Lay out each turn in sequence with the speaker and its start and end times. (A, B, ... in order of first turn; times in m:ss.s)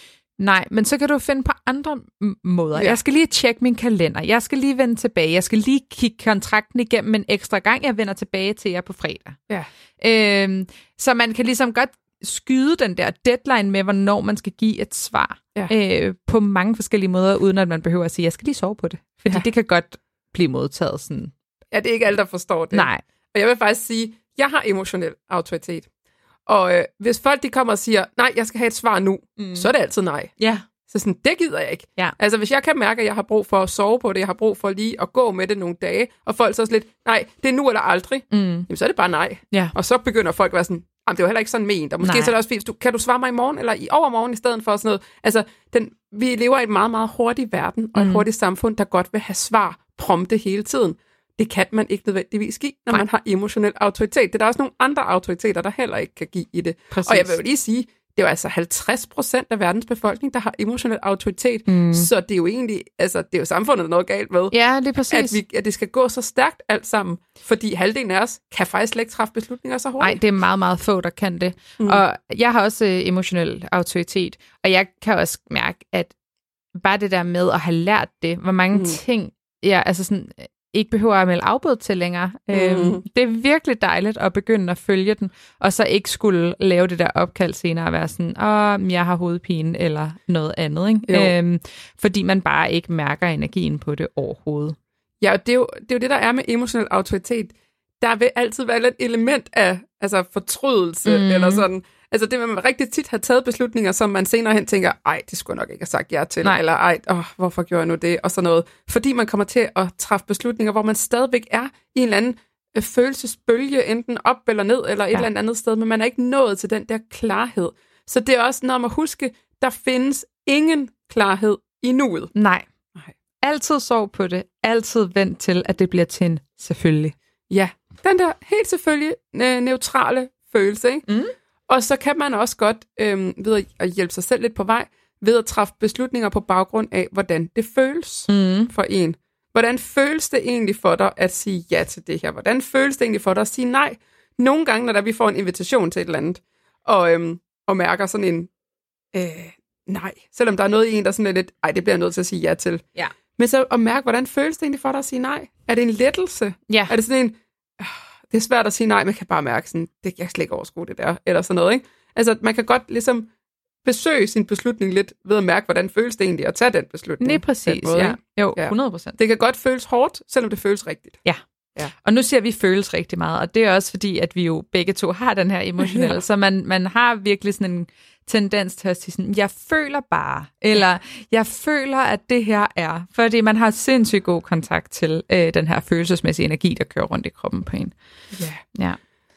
0:00.4-0:09.4 A
0:10.0-0:21.3 A
0:21.7-0:25.9 B
0:22.7-0:23.0 A
0:26.5-0:30.3 B
0:29.4-0:29.7 A
0:30.4-0:30.7 A
0:30.9-1:04.5 B
0:38.3-0:38.7 A
0:42.0-0:42.3 A
0:48.0-0:48.2 A
0:56.9-0:57.4 A
1:01.7-1:02.1 A
1:04.5-1:05.4 A
1:05.1-1:10.2 B
1:10.0-1:16.1 A
1:16.8-1:34.8 A
1:18.7-1:19.0 B
1:22.5-1:23.0 B
1:31.1-1:31.3 B
1:35.2-2:02.3 B
1:41.0-1:41.6 A
2:02.3-2:02.7 A
2:03.4-2:07.1 A
2:07.5-2:11.0 B
2:11.1-2:11.3 A
2:11.7-2:28.5 B
2:18.3-2:18.7 A
2:29.1-2:32.8 B
2:33.3-2:43.3 B
2:36.7-2:37.0 A
2:43.8-2:51.2 B
2:47.2-2:49.2 A
2:52.0-3:07.9 A
2:55.8-2:56.2 B
3:08.3-3:08.6 B